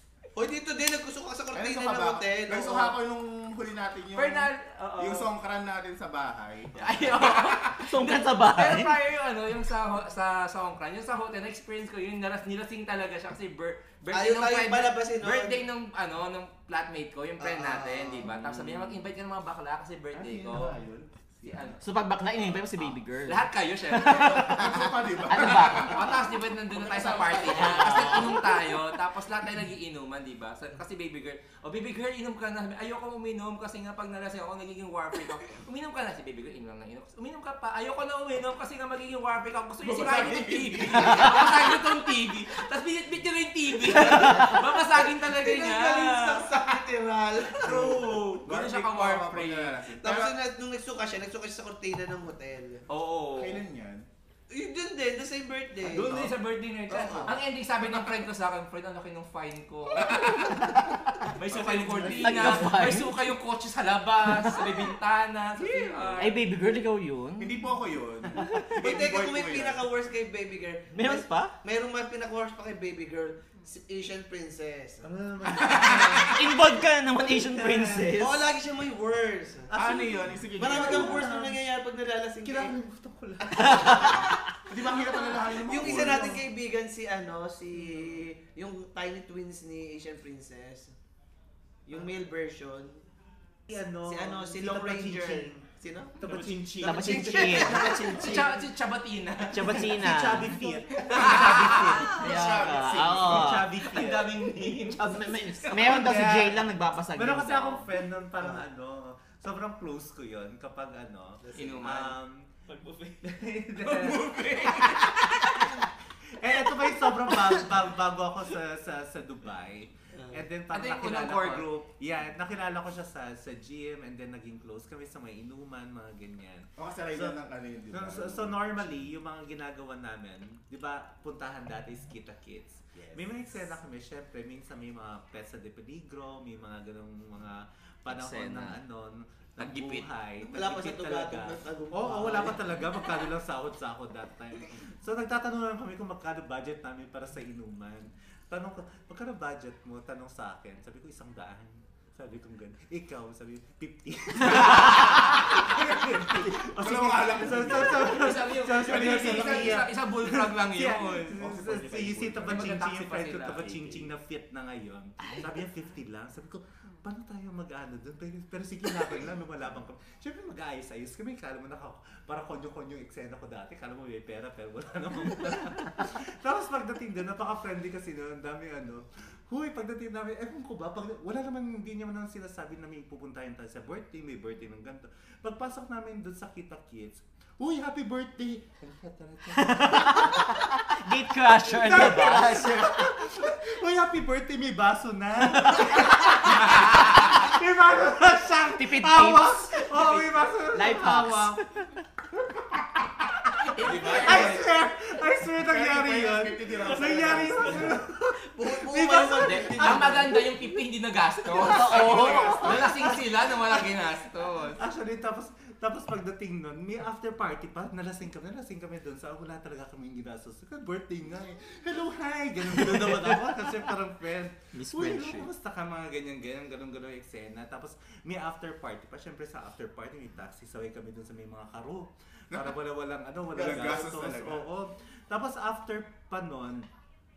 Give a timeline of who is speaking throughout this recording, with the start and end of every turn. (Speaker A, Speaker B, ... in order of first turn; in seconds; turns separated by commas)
Speaker A: 0.3-2.9, Speaker B: 1.5-7.4, Speaker C: 4.1-5.3, Speaker C: 6.8-20.8, Speaker D: 7.8-8.9, Speaker A: 14.1-15.7, Speaker A: 17.4-18.4, Speaker B: 18.4-18.9, Speaker B: 20.1-21.7, Speaker C: 21.4-21.8, Speaker D: 21.8-26.1, Speaker C: 22.8-46.8, Speaker B: 24.1-28.4, Speaker D: 27.5-28.4, Speaker B: 39.8-41.8, Speaker D: 43.9-44.6, Speaker A: 44.1-48.1, Speaker C: 47.6-49.7, Speaker B: 47.6-50.4, Speaker A: 50.0-52.8, Speaker C: 52.9-53.6, Speaker B: 53.3-54.1, Speaker A: 54.5-56.4, Speaker C: 55.8-60.7, Speaker A: 56.9-57.4, Speaker C: 61.4-66.4, Speaker E: 61.4-62.4, Speaker D: 62.0-63.1, Speaker D: 64.3-64.6, Speaker B: 65.6-66.1, Speaker D: 66.2-67.6, Speaker B: 67.4-69.8, Speaker D: 68.4-68.8, Speaker A: 68.8-75.1, Speaker D: 70.9-71.5, Speaker F: 75.0-76.4, Speaker D: 76.3-78.4, Speaker F: 77.3-78.1, Speaker A: 78.1-82.7, Speaker B: 79.7-81.3, Speaker F: 80.6-81.7, Speaker F: 82.4-84.2, Speaker A: 83.5-90.9, Speaker D: 83.6-84.1, Speaker B: 84.7-86.4, Speaker F: 85.9-86.2, Speaker A: 91.9-93.0, Speaker F: 93.7-95.6, Speaker A: 94.0-96.2, Speaker F: 96.2-98.4, Speaker E: 96.2-96.8, Speaker D: 96.8-97.9, Speaker A: 96.8-98.6, Speaker C: 97.9-99.9, Speaker D: 99.5-100.6, Speaker F: 99.7-102.4, Speaker C: 101.1-102.1, Speaker B: 101.3-103.6, Speaker D: 102.1-103.8, Speaker F: 103.0-104.4, Speaker C: 103.8-106.0, Speaker D: 104.8-107.8, Speaker F: 105.7-112.5, Speaker A: 111.4-111.8, Speaker C: 111.5-112.1, Speaker E: 112.7-114.4, Speaker F: 113.2-114.3, Speaker C: 113.8-115.6, Speaker F: 116.4-127.4, Speaker C: 120.7-121.8, Speaker B: 126.8-128.9, Speaker F: 127.9-190.6, Speaker B: 132.9-133.2, Speaker D: 138.1-138.8, Speaker C: 139.6-140.1, Speaker A: 140.4-142.6, Speaker B: 154.7-159.8, Speaker C: 157.8-161.4, Speaker B: 161.4-162.8, Speaker C: 162.3-164.1, Speaker D: 165.2-165.5, Speaker D: 189.5-193.1, Speaker F: 191.6-201.6, Speaker D: 198.7-202.0, Speaker C: 203.7-204.6, Speaker B: 203.8-204.7, Speaker F: 203.9-210.3, Speaker B: 205.5-208.0, Speaker E: 206.8-207.9, Speaker A: 208.5-210.4, Speaker D: 209.5-209.9, Speaker C: 209.7-214.8, Speaker D: 211.6-212.8, Speaker B: 211.8-212.9, Speaker F: 212.5-213.2, Speaker F: 214.8-236.9, Speaker D: 222.8-223.5, Speaker D: 224.7-225.5, Speaker B: 232.5-232.8, Speaker B: 233.5-234.7